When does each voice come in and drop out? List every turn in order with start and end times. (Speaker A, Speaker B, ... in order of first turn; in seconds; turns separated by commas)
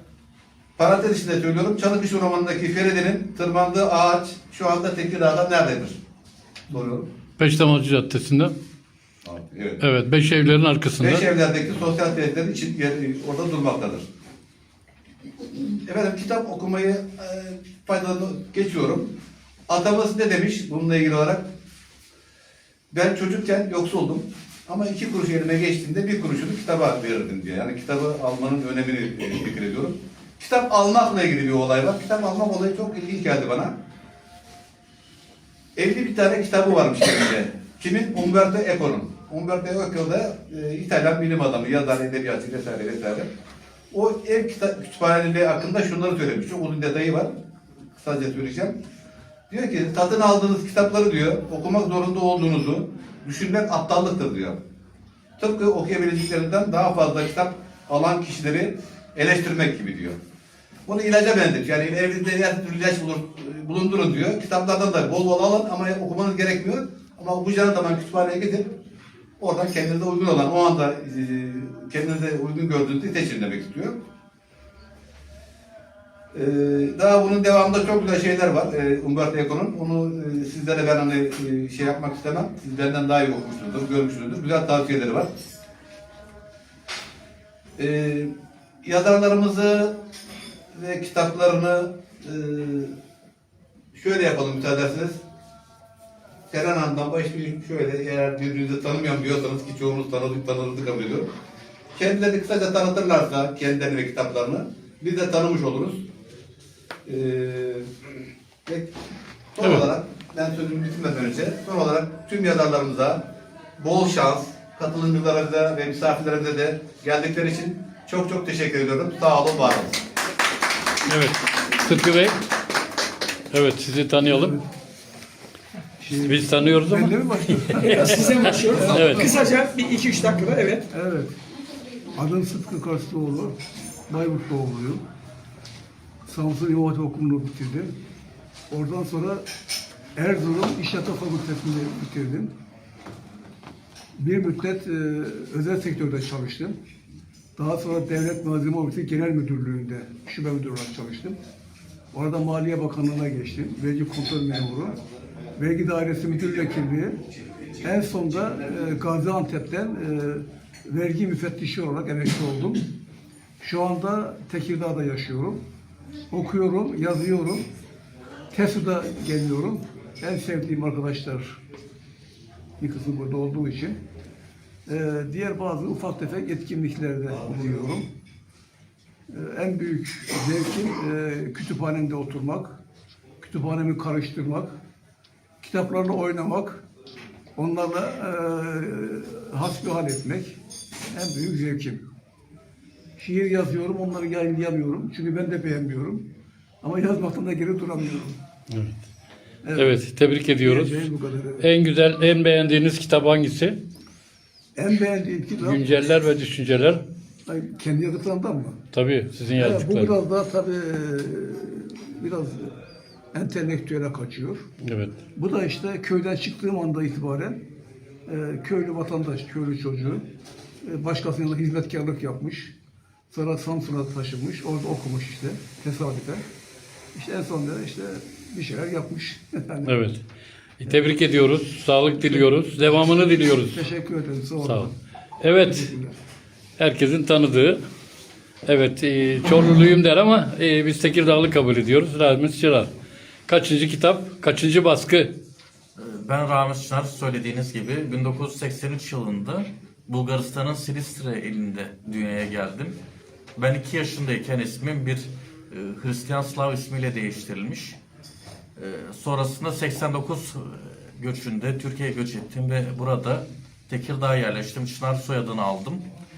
Speaker A: 0.8-6.0, Speaker A: 6.7-7.1, Speaker B: 7.4-8.6, Speaker A: 9.3-9.8, Speaker B: 9.8-11.2, Speaker A: 11.0-14.1, Speaker A: 15.8-19.1, Speaker A: 19.7-21.5, Speaker A: 22.9-33.7, Speaker A: 35.8-43.3, Speaker A: 43.9-47.3, Speaker A: 48.0-48.8, Speaker A: 49.5-54.6, Speaker A: 55.4-60.2, Speaker A: 60.9-68.7, Speaker A: 69.4-74.0, Speaker A: 76.3-85.3, Speaker A: 87.8-88.3, Speaker A: 88.8-90.0, Speaker A: 90.7-92.9, Speaker A: 93.9-95.2, Speaker A: 96.5-101.3, Speaker A: 102.0-106.1, Speaker A: 107.1-107.9, Speaker A: 108.7-108.9, Speaker A: 109.5-113.2, Speaker A: 113.8-120.0, Speaker B: 121.1-122.4, Speaker B: 123.5-124.6, Speaker C: 124.2-124.7, Speaker C: 126.0-129.4, Speaker B: 126.2-128.3, Speaker D: 127.9-130.9, Speaker B: 128.9-129.3, Speaker C: 130.9-131.3, Speaker C: 132.2-133.6, Speaker C: 134.1-135.0, Speaker C: 136.3-137.9, Speaker C: 138.7-139.4, Speaker C: 140.2-142.5, Speaker C: 144.2-146.8, Speaker C: 147.6-151.4, Speaker C: 152.1-155.0, Speaker C: 155.6-157.2, Speaker C: 157.8-162.9, Speaker C: 163.6-165.6, Speaker C: 166.3-167.7, Speaker C: 168.5-171.6, Speaker C: 172.8-174.0, Speaker C: 174.9-178.1, Speaker C: 179.3-182.8, Speaker C: 183.4-184.8, Speaker C: 185.6-186.8, Speaker C: 187.6-190.6, Speaker C: 191.1-192.0, Speaker C: 193.2-196.3, Speaker C: 196.8-198.4, Speaker B: 198.7-199.0, Speaker C: 199.6-201.7, Speaker B: 199.8-203.8, Speaker C: 204.8-206.0, Speaker B: 205.6-207.0, Speaker C: 207.5-208.8, Speaker B: 208.9-210.2, Speaker C: 209.6-212.7, Speaker C: 213.3-214.7, Speaker B: 214.8-215.2, Speaker C: 215.3-217.6, Speaker C: 218.3-220.2, Speaker C: 220.8-222.7, Speaker C: 223.3-226.4, Speaker C: 227.2-230.0, Speaker B: 229.8-230.2, Speaker B: 230.8-233.8, Speaker C: 230.8-231.2, Speaker C: 232.1-232.6, Speaker C: 233.1-235.0, Speaker B: 234.6-235.9, Speaker C: 235.6-236.2, Speaker B: 236.8-237.8, Speaker B: 238.7-242.9, Speaker B: 243.5-245.3, Speaker E: 246.0-253.0, Speaker E: 253.6-258.0, Speaker E: 258.8-266.0